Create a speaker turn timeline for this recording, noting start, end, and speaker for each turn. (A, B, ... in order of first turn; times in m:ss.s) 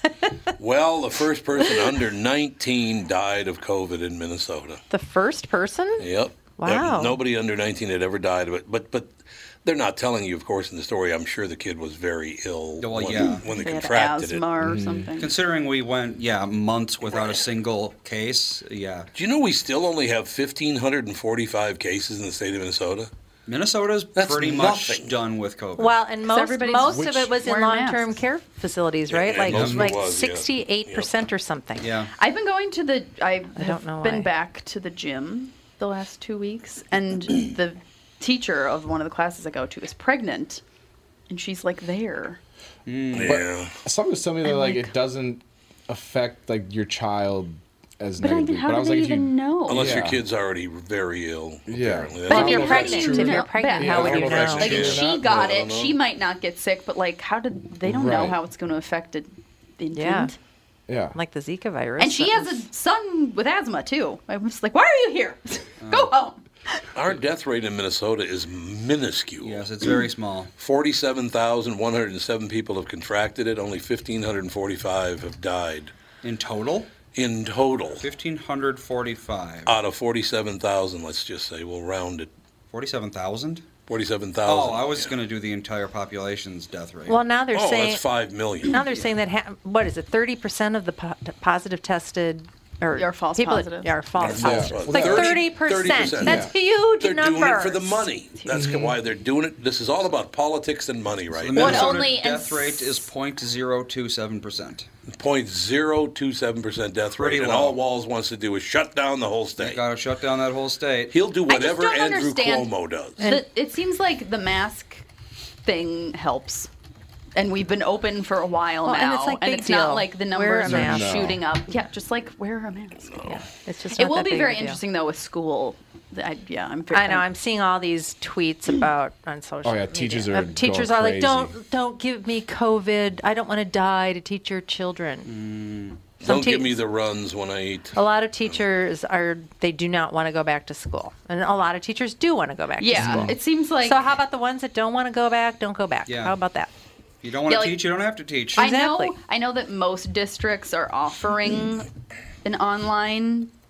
0:00.6-0:04.8 A
0:04.9-0:07.2 B
0:06.0-0:14.4 A
0:12.8-0:13.5 C
0:13.5-0:15.3 D
0:14.6-0:15.1 E
0:15.2-0:19.1 C
0:17.1-0:17.4 A
0:19.1-0:23.1 A
0:23.5-0:26.0 C
0:24.1-0:25.1 A
0:25.8-0:31.9 B
0:26.2-0:28.1 D
0:29.1-0:31.1 A
0:29.5-0:29.9 C
0:29.6-0:29.8 E
0:31.8-0:32.1 C
0:32.2-0:40.6 D
0:33.6-0:34.3 B
0:41.3-0:42.4 D
0:42.8-0:43.4 C
0:43.1-0:43.7 A
0:43.2-0:50.2 E
0:48.2-0:50.0 D
0:49.7-0:53.0 A
0:51.7-0:55.2 E
0:52.3-1:00.3 D
0:52.3-0:55.0 B
0:54.0-0:56.0 A
0:57.8-0:58.4 E
0:59.9-1:00.3 B
1:00.9-1:01.1 E
1:01.1-1:02.6 B
1:02.0-1:06.8 D
1:05.8-1:06.2 C
1:06.9-1:09.6 A
1:09.4-1:10.5 C
1:10.6-1:15.9 A
1:16.2-1:16.9 C
1:17.1-1:18.0 A
1:17.9-1:19.7 C
1:19.6-1:22.3 A
1:22.7-1:23.6 C
1:23.9-1:25.1 A
1:24.4-1:27.2 C
1:27.1-1:28.0 B
1:27.5-1:28.7 A
1:28.7-1:38.1 B
1:32.9-1:33.9 D
1:34.2-1:36.5 A
1:34.4-1:35.3 E
1:36.2-1:36.5 E
1:37.0-1:42.0 A
1:38.4-1:38.7 D
1:38.5-1:39.0 E
1:41.3-1:44.8 C
1:41.5-1:43.1 D
1:45.1-1:49.8 A
1:47.1-1:47.8 C
1:49.6-1:51.1 C
1:51.1-1:53.2 A
1:51.5-1:55.0 D
1:53.2-1:53.4 B
1:55.6-1:56.7 D
1:57.4-2:03.4 D
1:58.8-2:01.4 B
2:00.6-2:01.4 E
2:03.2-2:04.8 B
2:03.9-2:07.2 D
2:06.9-2:15.3 B
2:09.6-2:11.5 E
2:15.2-2:16.1 C
2:16.2-2:18.0 A
2:16.2-2:16.7 B
2:17.9-2:26.7 B
2:22.8-2:24.0 D
2:23.0-2:23.4 E
2:26.0-2:26.4 C
2:27.2-2:28.7 C
2:27.5-2:27.8 D
2:28.6-2:31.9 D
2:28.6-2:29.1 B
2:32.4-2:33.5 D